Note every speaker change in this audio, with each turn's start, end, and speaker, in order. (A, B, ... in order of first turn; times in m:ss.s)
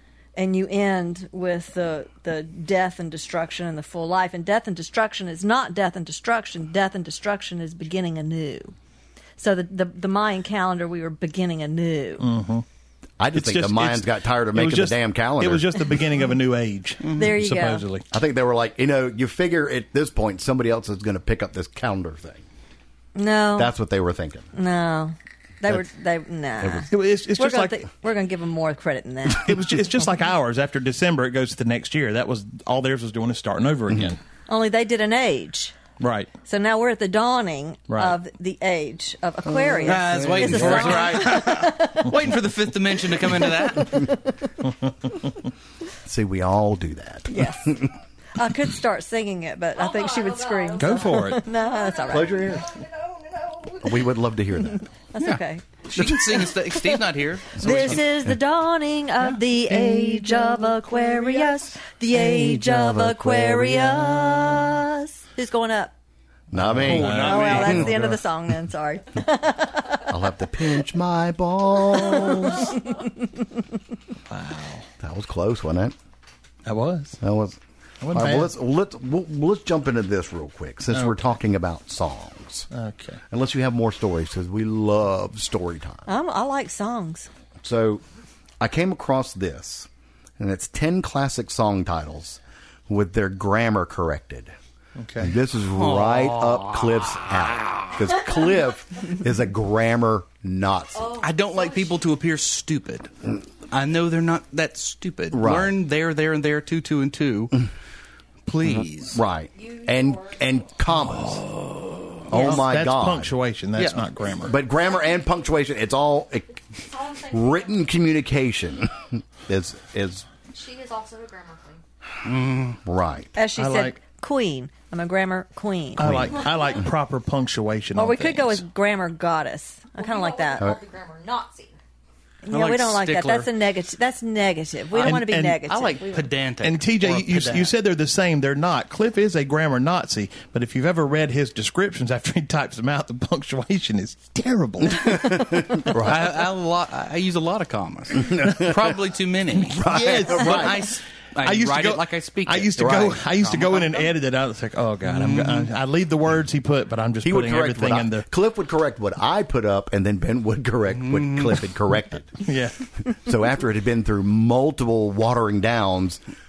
0:00.4-0:08.7 A
0:09.4-0:12.3 A
0:12.2-0:12.6 B
0:13.2-0:15.8 C
0:13.3-0:18.0 B
0:17.0-0:17.3 D
0:17.1-0:17.8 A
0:18.1-0:22.4 C
0:23.1-0:23.7 A
0:23.6-0:24.5 C
0:24.5-0:29.6 A
0:26.6-0:26.9 C
0:26.9-0:27.8 B
0:29.3-0:34.2 B
0:34.5-0:35.8 A
0:36.0-0:36.3 B
0:36.4-0:42.2 A
0:37.9-0:38.2 B
0:39.8-0:44.0 D
0:39.9-0:41.3 C
0:43.2-0:44.4 A
0:46.0-0:47.9 C
0:47.3-0:52.5 A
0:49.8-0:54.1 E
0:50.8-0:51.4 B
0:52.1-0:52.7 C
0:53.8-0:54.8 C
0:55.1-0:57.0 A
0:55.2-0:58.1 D
0:56.0-0:56.4 C
0:57.5-1:05.9 A
0:57.6-0:57.9 C
1:00.2-1:01.7 E
1:02.1-1:04.5 C
1:06.5-1:07.9 C
1:06.5-1:08.2 B
1:06.8-1:08.1 D
1:07.2-1:10.2 A
1:10.1-1:12.8 C
1:11.8-1:13.0 A
1:14.3-1:14.9 B
1:15.0-1:15.9 C
1:16.6-1:17.2 B
1:17.2-1:17.6 C
1:18.0-1:18.5 B
1:18.1-1:22.7 C
1:22.7-1:23.2 B
1:23.3-1:26.1 C
1:26.0-1:27.3 A
1:27.6-1:28.0 C
1:28.6-1:29.9 C
1:30.4-1:34.5 C
1:35.0-1:35.3 B
1:35.2-1:41.2 C
1:35.7-1:38.2 D
1:40.9-1:42.0 E
1:41.2-1:43.1 D
1:43.7-1:47.6 D
1:45.3-1:45.7 C
1:48.4-1:49.2 D
1:49.1-1:51.4 C
1:49.5-1:50.5 E
1:51.0-1:52.6 D
1:52.3-1:53.3 C
1:52.3-1:54.6 B
1:53.8-1:54.0 D
1:54.4-1:56.6 C
1:54.6-1:55.1 E
1:56.7-1:57.9 E
1:57.3-2:00.3 C
2:00.5-2:01.8 E
2:02.2-2:02.8 D
2:02.8-2:03.3 C
2:03.4-2:06.2 A
2:03.6-2:04.0 B
2:06.0-2:08.6 B
2:06.0-2:06.4 C
2:06.4-2:06.8 E
2:07.9-2:10.7 A
2:10.0-2:11.8 E
2:12.4-2:16.3 A
2:12.5-2:13.5 D
2:15.0-2:17.7 D
2:15.0-2:15.6 B
2:16.6-2:25.7 B
2:25.0-2:26.3 C
2:25.9-2:34.0 D
2:28.2-2:28.8 C
2:29.6-2:30.8 B
2:29.7-2:30.9 C
2:31.4-2:38.2 B
2:32.8-2:33.2 C
2:35.0-2:35.7 D
2:37.2-2:42.4 C
2:40.9-2:41.7 D
2:42.4-2:42.9 B
2:43.0-2:46.2 C